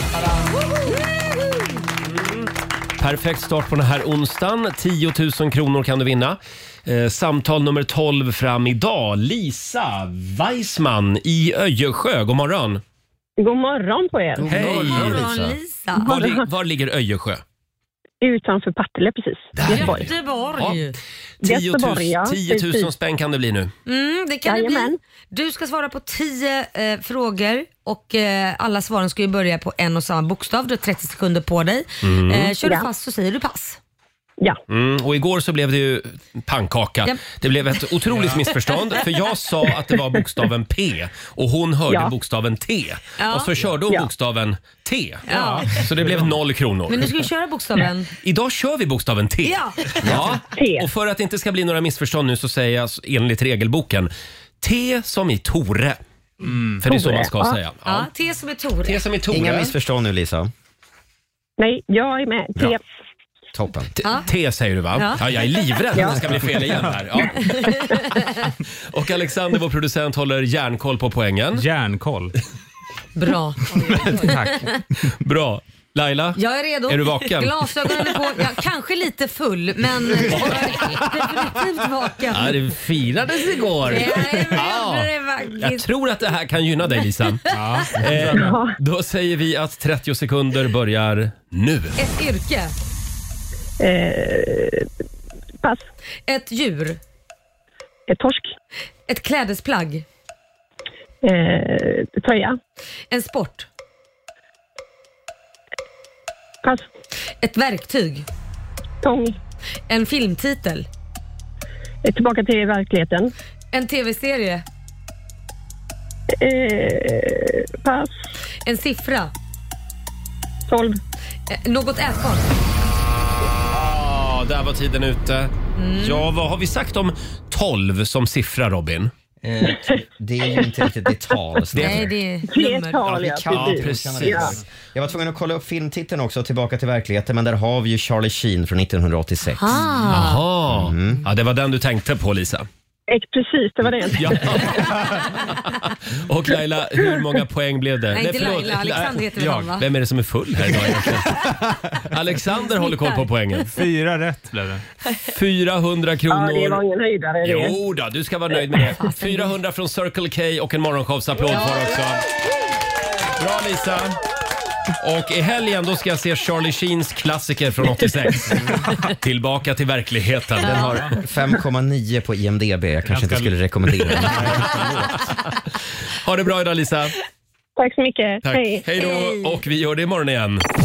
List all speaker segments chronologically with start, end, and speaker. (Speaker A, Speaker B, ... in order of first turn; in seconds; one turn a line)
Speaker A: 2.0-12.8
Speaker B: 13.4-14.4
Speaker C: 14.3-15.6
Speaker A: 14.5-15.3
Speaker D: 14.5-16.1
Speaker A: 16.0-17.4
Speaker B: 16.1-16.4
Speaker B: 18.2-20.1
Speaker A: 19.6-20.8
Speaker D: 19.7-20.9
Speaker A: 21.4-23.7
Speaker B: 21.4-22.9
Speaker D: 23.9-33.8
Speaker B: 24.4-24.9
Speaker A: 32.0-32.5
Speaker A: 34.7-47.1
Speaker E: 38.1-38.4
Speaker D: 43.2-43.5
Speaker D: 45.3-45.7
Speaker E: 45.3-46.3
Speaker D: 46.9-48.1
Speaker A: 48.2-54.1
Speaker D: 49.4-49.9
Speaker C: 50.0-50.4
Speaker B: 50.5-50.9
Speaker A: 54.6-56.0
Speaker E: 56.4-56.8
Speaker A: 56.8-58.1
Speaker B: 56.9-57.5
Speaker D: 57.9-59.0
Speaker A: 58.8-59.7
Speaker C: 59.3-60.5
Speaker B: 61.6-62.8
Speaker C: 63.5-63.9
Speaker A: 64.0-67.5
Speaker D: 65.0-65.2
Speaker B: 65.9-66.2
Speaker B: 67.4-67.9
Speaker D: 67.4-68.5
Speaker A: 68.9-71.6
Speaker E: 71.5-72.3
Speaker D: 73.2-74.8
Speaker E: 73.7-74.7
Speaker A: 75.2-77.9
Speaker D: 76.3-82.6
Speaker A: 80.3-80.7
Speaker A: 82.3-92.0
Speaker D: 83.9-85.8
Speaker E: 87.5-88.5
Speaker B: 88.3-88.7
Speaker D: 92.0-92.7
Speaker B: 93.8-94.9
Speaker D: 96.3-97.0
Speaker B: 98.1-98.5
Speaker D: 99.1-100.0
Speaker B: 101.2-102.6
Speaker D: 103.1-103.7
Speaker D: 107.4-108.3
Speaker B: 109.0-109.3
Speaker D: 109.9-110.9
Speaker B: 112.0-113.3
Speaker D: 113.7-114.6
Speaker B: 116.4-118.1
Speaker D: 118.6-119.3
Speaker B: 120.7-121.0
Speaker D: 121.5-122.5
Speaker A: 123.7-129.1
Speaker D: 125.8-126.3
Speaker C: 129.4-132.1
Speaker A: 131.7-132.1
Speaker D: 131.8-133.1
Speaker B: 132.5-134.5
Speaker C: 133.0-141.2
Speaker A: 133.5-134.6
Speaker D: 139.6-140.4
Speaker A: 140.1-142.7
Speaker B: 143.1-144.7
Speaker A: 144.2-151.6
Speaker D: 148.1-149.8
Speaker E: 150.7-152.0
Speaker A: 152.1-153.7
Speaker D: 152.8-153.2
Speaker E: 153.7-154.8
Speaker A: 155.3-156.8
Speaker B: 156.3-157.8
Speaker A: 157.4-162.2
Speaker D: 159.0-159.4
Speaker D: 161.5-161.9
Speaker A: 163.4-164.2
Speaker A: 165.0-170.9
Speaker C: 170.6-174.8
Speaker D: 170.6-170.9
Speaker E: 173.1-173.5
Speaker E: 174.0-175.1
Speaker A: 176.2-177.2
Speaker B: 177.8-178.8
Speaker A: 178.4-180.6
Speaker D: 179.0-179.4